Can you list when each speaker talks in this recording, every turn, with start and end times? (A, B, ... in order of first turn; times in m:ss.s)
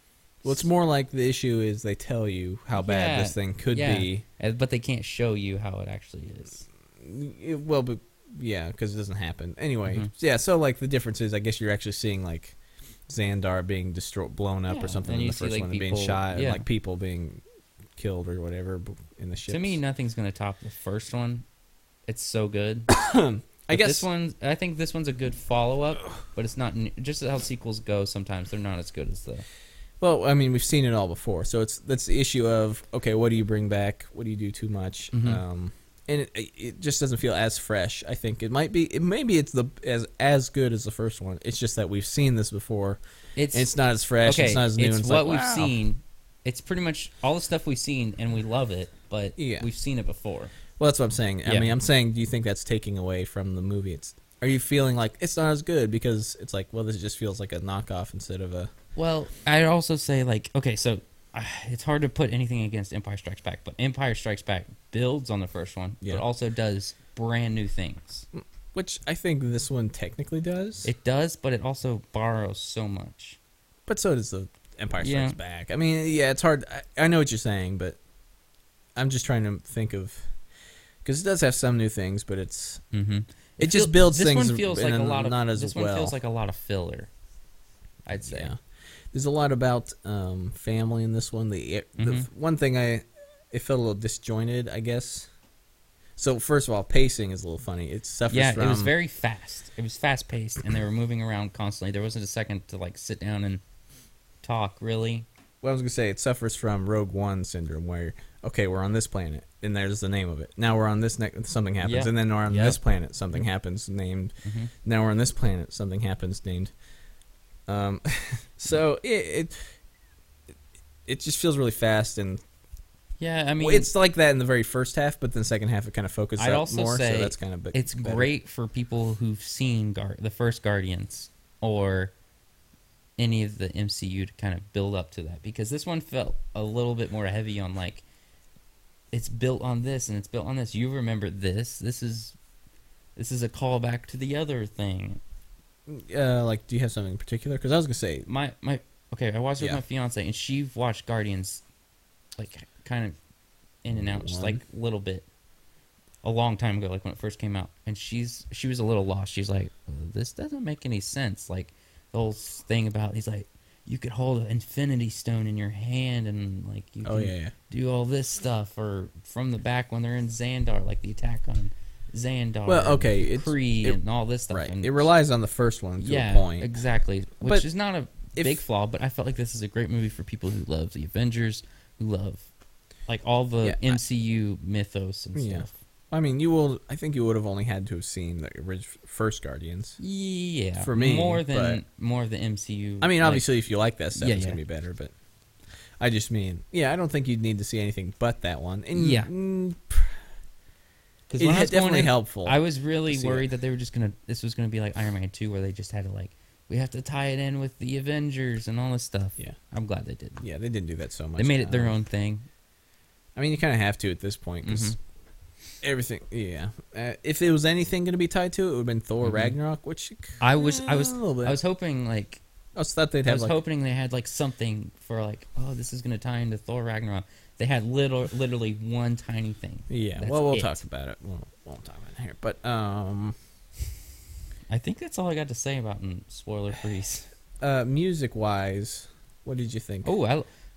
0:00.4-0:00.7 A
0:00.4-0:04.2 B
0:02.7-0:06.6 A
0:07.0-0:12.6 B
0:13.1-0:17.4 B
0:14.7-0:16.6 A
0:18.0-0:19.8 B
0:19.5-0:21.4 A
0:22.1-0:22.9 A
0:22.9-0:24.1 B
0:23.7-0:29.4 A
0:30.0-0:43.0 B
0:35.1-0:35.4 A
0:43.4-0:43.7 A
0:43.5-0:45.8 B
0:44.2-0:50.5 A
0:49.4-0:49.7 B
0:50.8-0:58.7 B
0:51.4-0:51.7 A
0:59.0-1:08.3 A
1:08.3-1:10.9 B
1:10.8-1:13.4 A
1:13.9-1:18.0 B
1:15.0-1:15.4 A
1:19.0-1:20.3 B
1:21.0-1:22.8 B
1:22.9-1:27.1 A
1:23.6-1:26.2 B
1:28.0-1:28.5 A
1:28.2-1:28.6 B
1:29.1-1:35.3 B
1:32.0-1:32.3 A
1:36.2-1:38.9 B
1:38.3-1:43.6 A
1:44.4-1:45.2 A
1:45.6-1:56.7 B
1:51.8-1:52.8 A
1:54.4-1:54.7 A
1:57.7-1:59.5 B
2:01.1-2:02.4 B
2:03.2-2:03.9 A
2:03.6-2:08.3 B
2:06.4-2:12.1 A
2:13.2-2:18.0 A
2:19.1-2:22.3 A
2:23.2-2:25.2 A
2:25.9-2:28.3 B
2:28.2-2:31.6 A
2:32.4-2:33.2 A
2:33.8-2:35.2 A
2:33.9-2:34.6 B
2:36.2-2:55.1 A
2:47.0-2:47.5 B
2:52.7-2:54.0 B
2:54.5-2:56.7 B
2:56.0-3:02.5 A
2:58.4-2:58.6 B
3:03.1-3:05.8 A
3:03.6-3:04.0 B
3:05.3-3:10.0 B
3:10.0-3:13.4 A
3:10.8-3:11.8 B
3:13.0-3:15.1 B
3:14.1-3:14.6 A
3:16.0-3:20.2 B
3:18.9-3:19.3 A
3:21.3-3:30.4 A
3:21.4-3:23.5 B
3:30.4-3:32.0 B
3:31.4-3:32.4 A
3:33.4-3:34.9 B
3:34.6-3:35.0 A
3:35.8-3:41.6 B
3:39.2-3:39.5 A
3:40.4-3:42.4 A
3:42.7-3:43.6 B
3:43.2-3:50.8 A
3:49.9-3:53.4 B
3:54.7-3:57.3 A
3:57.6-4:00.1 B
4:00.0-4:00.5 A